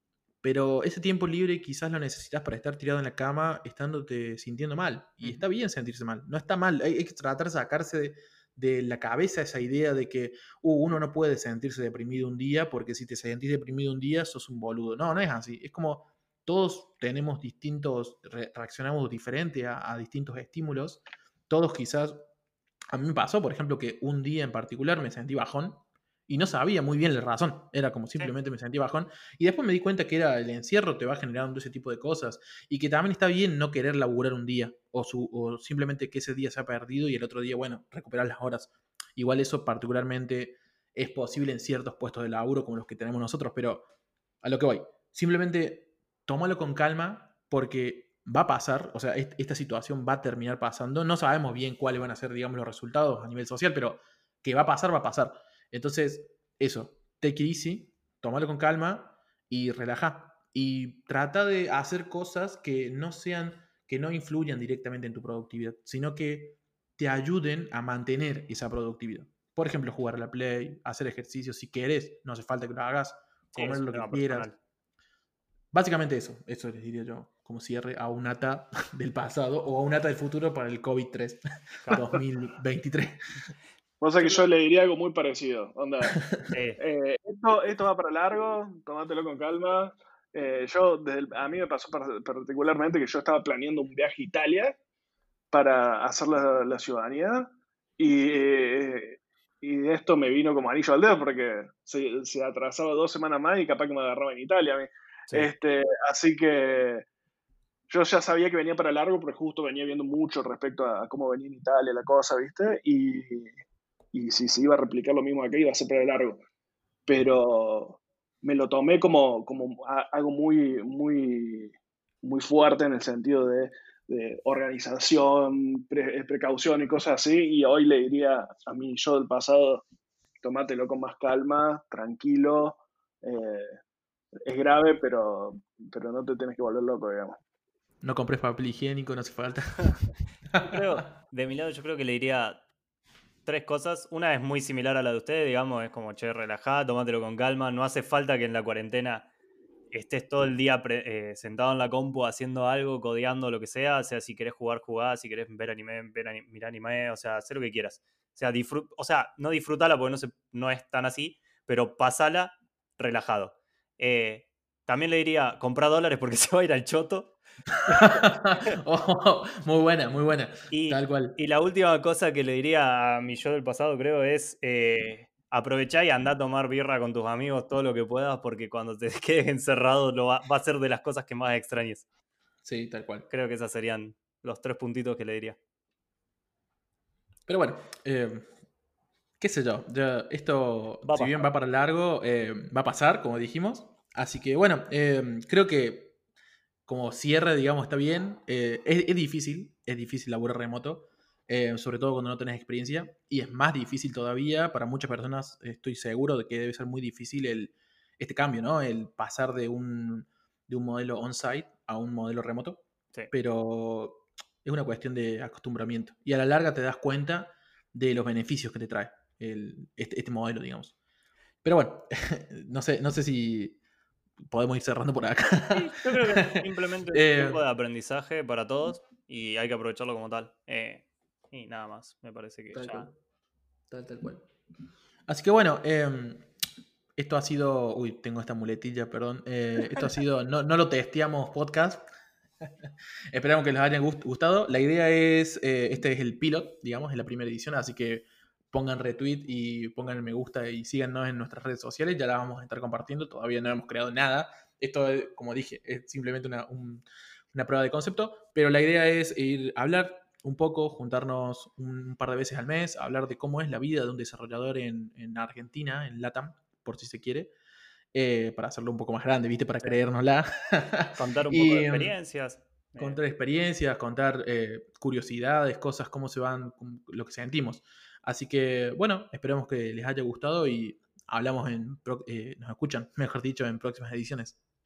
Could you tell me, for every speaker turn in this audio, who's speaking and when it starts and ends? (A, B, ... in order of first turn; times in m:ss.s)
0:00.4-0:22.2 A
0:22.9-0:43.9 A
0:44.4-1:14.5 A
1:13.5-1:14.6 B
1:15.7-1:23.2 A
1:24.0-1:26.2 C
1:26.5-1:26.8 B
1:26.8-1:34.8 C
1:35.5-1:47.1 C
1:47.9-1:53.5 C
1:54.1-1:56.4 C
1:57.1-2:09.8 C
2:10.4-2:13.8 C
2:14.4-2:17.4 C
2:18.0-2:20.8 A
2:20.7-2:22.6 B
2:23.4-2:29.3 B
2:29.9-2:48.1 B
2:47.9-2:51.4 A
2:50.7-3:02.1 B
3:02.6-3:03.3 A
3:03.3-3:05.6 B
3:07.5-3:08.5 A
3:09.4-3:16.2 A
3:11.1-3:11.5 B
3:16.9-3:41.0 A
3:41.6-3:43.8 A
3:44.5-3:47.6 A
3:45.7-3:53.1 B
3:52.7-3:53.2 A
3:53.9-3:54.4 A
3:55.3-3:56.5 A
3:57.2-4:02.0 A
4:02.6-4:27.5 A
4:28.1-4:32.2 A
4:31.2-4:33.2 B
4:33.0-4:44.6 A